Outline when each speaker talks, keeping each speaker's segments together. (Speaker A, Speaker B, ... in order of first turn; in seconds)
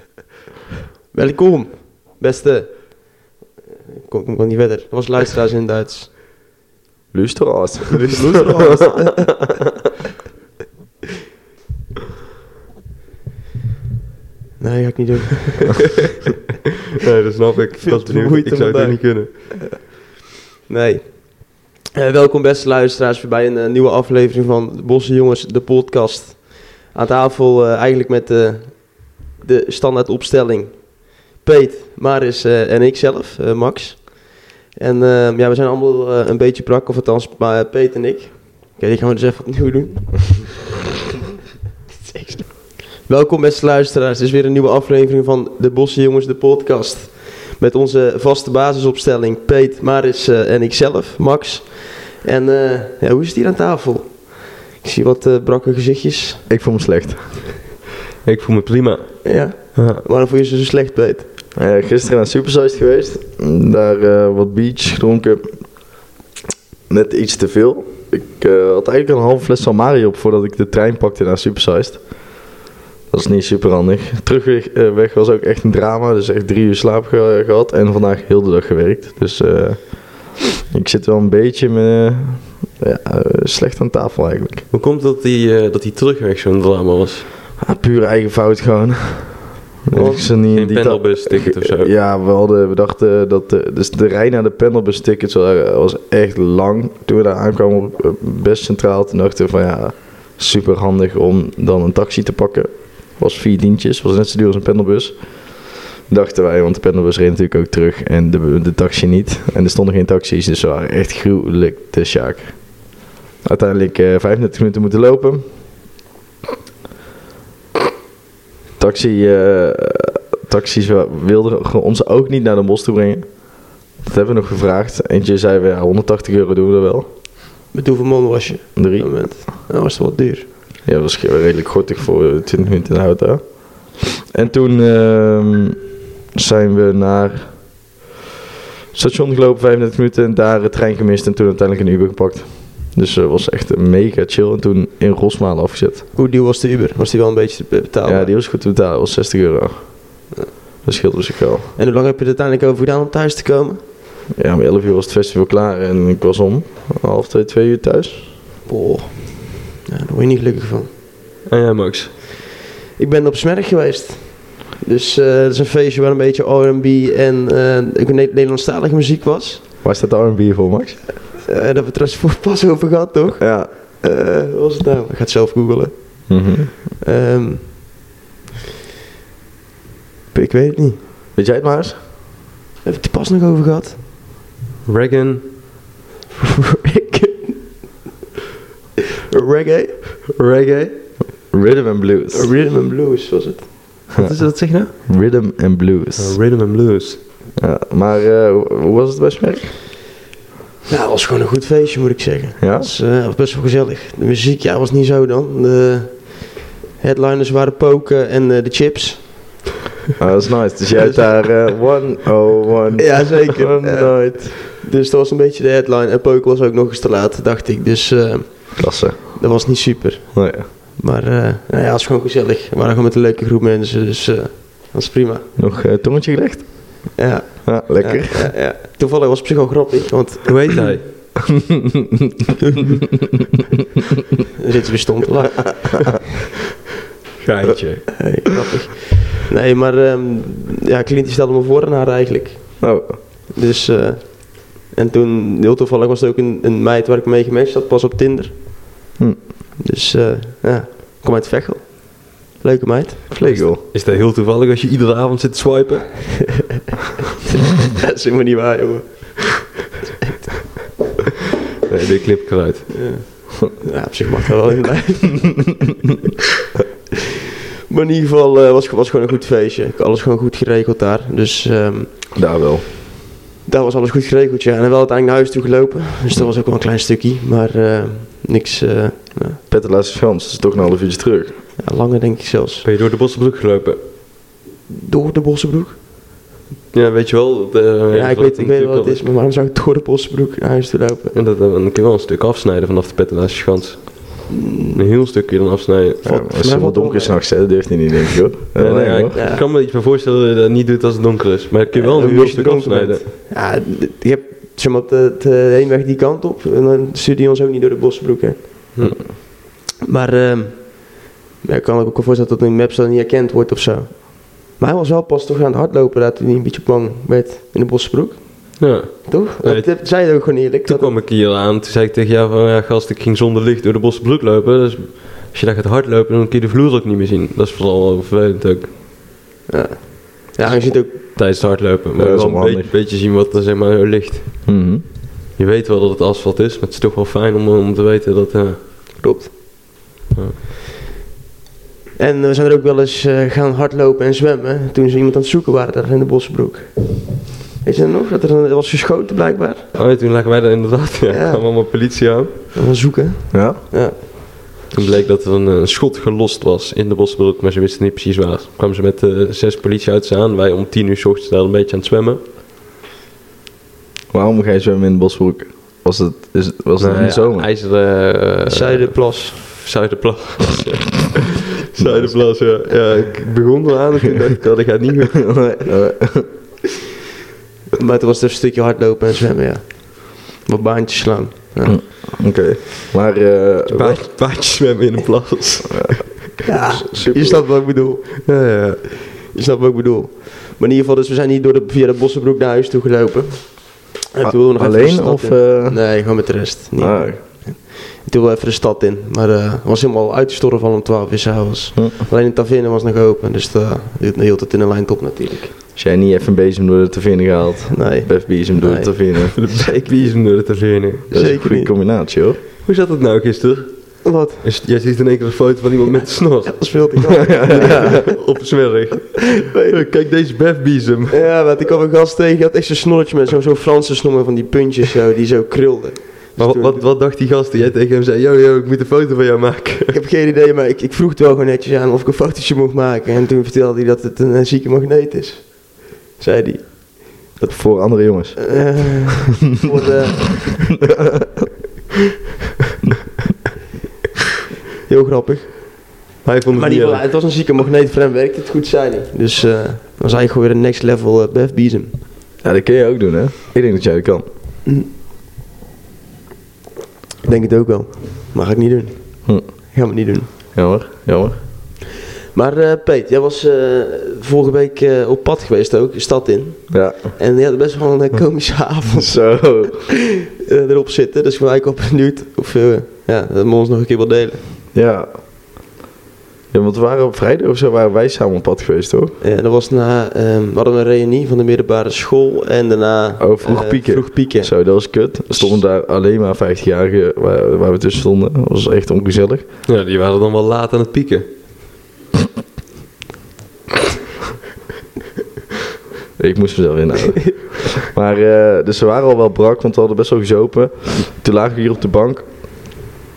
Speaker A: 1.1-3.3, 4.0-6.1, 8.1-9.3, 14.6-16.0, 17.8-19.6, 20.7-40.6, 42.0-56.4, 59.2-61.3, 89.9-90.3, 127.7-130.5, 146.2-148.3, 151.8-153.8, 158.7-160.9, 163.0-169.6, 171.4-177.8, 180.3-181.0, 182.8-184.0, 186.4-187.8, 189.3-190.1, 192.3-193.7, 200.9-209.6, 213.0-225.5, 227.2-230.8, 234.6-236.2, 238.1-248.9, 249.8-253.6, 257.4-259.7, 262.9-265.9, 267.9-272.4, 273.6-279.6, 281.8-282.9, 284.9-286.0, 288.1-291.4, 294.5-295.0, 296.5-297.7, 299.3-299.6, 301.9-309.0, 310.0-321.1, 329.7-331.2, 339.2-339.5, 342.2-349.9, 351.3-351.6, 352.7-354.2, 368.7-369.6, 378.0-382.3, 386.6-388.5, 389.4-405.7, 407.9-410.1, 411.3-411.9, 414.2-414.6, 416.7-418.3, 419.7-420.0, 421.3-427.1, 430.1-437.7, 438.6-440.9, 445.1-446.2, 446.7-452.2, 457.4-460.5, 462.5-474.6, 479.4-485.7
Speaker B: 7.1-8.5, 56.5-57.5, 61.5-65.9, 66.9-72.4, 73.1-84.7, 87.6-115.8, 118.8-127.0, 128.8-129.3, 130.9-137.8, 138.9-146.1, 148.1-150.3, 150.8-151.7, 154.4-158.3, 169.8-171.0, 173.4-173.7, 176.3-176.7, 181.4-182.0, 191.5-192.5, 195.0-196.4, 197.6-199.7, 202.6-202.9, 210.2-214.6, 218.8-219.4, 220.3-220.7, 225.6-228.5, 231.7-232.2, 242.8-243.2, 253.3-253.8, 272.4-272.9, 279.7-281.6, 296.2-299.4, 302.3-303.2, 332.1-332.9, 334.7-335.0, 353.5-353.8, 364.3-367.7, 372.0-372.3, 375.4-376.5, 381.9-384.2, 385.9-386.3, 386.9-387.6, 394.4-396.1, 397.0-397.4, 406.0-409.6, 411.3-412.6, 417.5-418.2, 437.6-439.2, 452.6-454.4, 460.7-461.6, 466.9-467.4, 469.1-470.0, 474.9-475.4, 476.7-479.4, 483.4-489.6, 496.4-503.0
Speaker C: 7.9-9.3, 17.0-19.3, 58.2-60.0, 84.7-87.3, 90.5-91.9, 161.5-162.1, 184.9-185.8, 190.3-191.0, 194.2-194.9, 196.2-197.2, 230.5-231.4, 237.4-238.5, 253.4-256.8, 261.9-263.2, 282.8-284.0, 286.9-289.2, 291.3-296.5, 298.8-303.2, 309.0-309.3, 318.8-328.9, 331.1-334.7, 335.6-339.2, 340.3-340.6, 349.9-352.7, 354.9-362.4, 367.0-375.8, 383.9-386.3, 388.4-389.1, 409.5-411.3, 412.8-421.4, 426.6-430.2, 446.4-447.2, 489.9-491.5